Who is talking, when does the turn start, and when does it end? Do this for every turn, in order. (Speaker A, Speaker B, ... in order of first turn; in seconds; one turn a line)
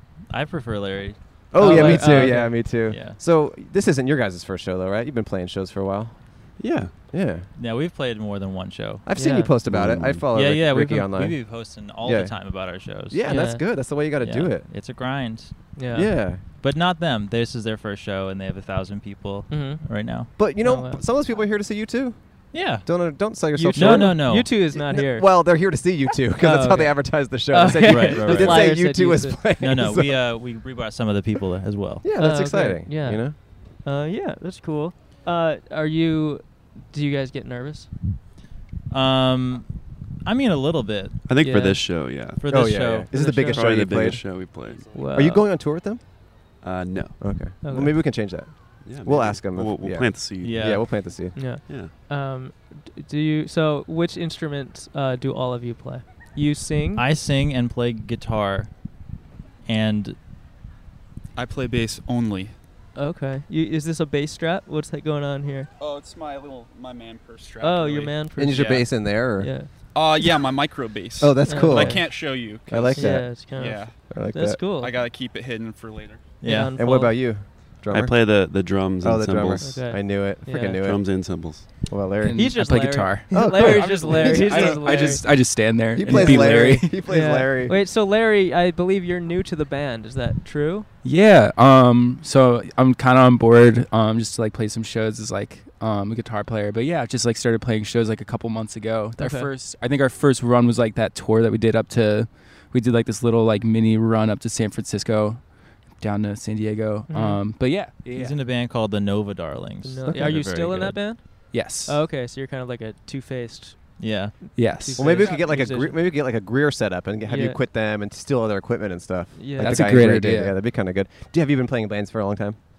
Speaker A: 0.3-3.2
Speaker B: 1.5-7.5
Speaker C: 1.6-2.8
Speaker D: 6.6-7.1
Speaker A: 7.5-9.0
Speaker B: 9.0-14.7
Speaker C: 9.2-9.5
Speaker D: 9.7-10.3
Speaker A: 10.3-15.8
Speaker C: 13.2-13.7
Speaker C: 15.7-16.1
Speaker B: 15.9-16.4
Speaker A: 16.4-20.3
Speaker C: 19.5-21.0
Speaker B: 20.4-30.2
Speaker A: 22.5-23.1
Speaker C: 23.5-29.4
Speaker A: 23.7-24.7
Speaker A: 27.8-28.9
Speaker A: 29.6-32.0
Speaker B: 32.0-33.4
Speaker C: 32.1-37.9
Speaker A: 38.9-41.8
Speaker D: 41.2-42.8
Speaker C: 41.4-41.8
Speaker A: 42.4-43.1
Speaker B: 42.5-46.0
Speaker C: 43.1-43.6
Speaker D: 43.5-44.9
Speaker C: 44.9-45.5
Speaker D: 46.6-47.5
Speaker B: 47.2-51.6
Speaker C: 47.6-48.2
Speaker D: 48.8-51.9
Speaker A: 50.4-50.9
Speaker C: 51.4-57.0
Speaker A: 56.9-58.7
Speaker A: 59.6-60.2
Speaker E: 61.3-62.5
Speaker C: 62.9-65.7
Speaker E: 65.8-68.9
Speaker C: 67.6-69.7
Speaker B: 68.4-69.5
Speaker E: 69.9-74.0
Speaker B: 71.2-74.6
Speaker C: 71.4-75.0
Speaker E: 74.6-76.4
Speaker A: 76.4-76.7
Speaker C: 76.4-77.3
Speaker B: 76.7-87.8
Speaker D: 77.9-80.2
Speaker C: 79.6-80.8
Speaker D: 80.8-82.0
Speaker F: 82.2-86.9
Speaker C: 82.3-85.4
Speaker C: 86.0-90.9
Speaker F: 91.0-108.4
Speaker C: 99.2-99.5
Speaker C: 107.1-107.4
Speaker A: 108.0-111.2
Speaker C: 109.8-116.0
Speaker F: 111.5-111.9
Speaker A: 114.0-114.6
Speaker F: 114.5-115.2
Speaker B: 115.0-122.6
Speaker C: 117.2-117.6
Speaker C: 119.3-120.0
Speaker F: 119.6-120.6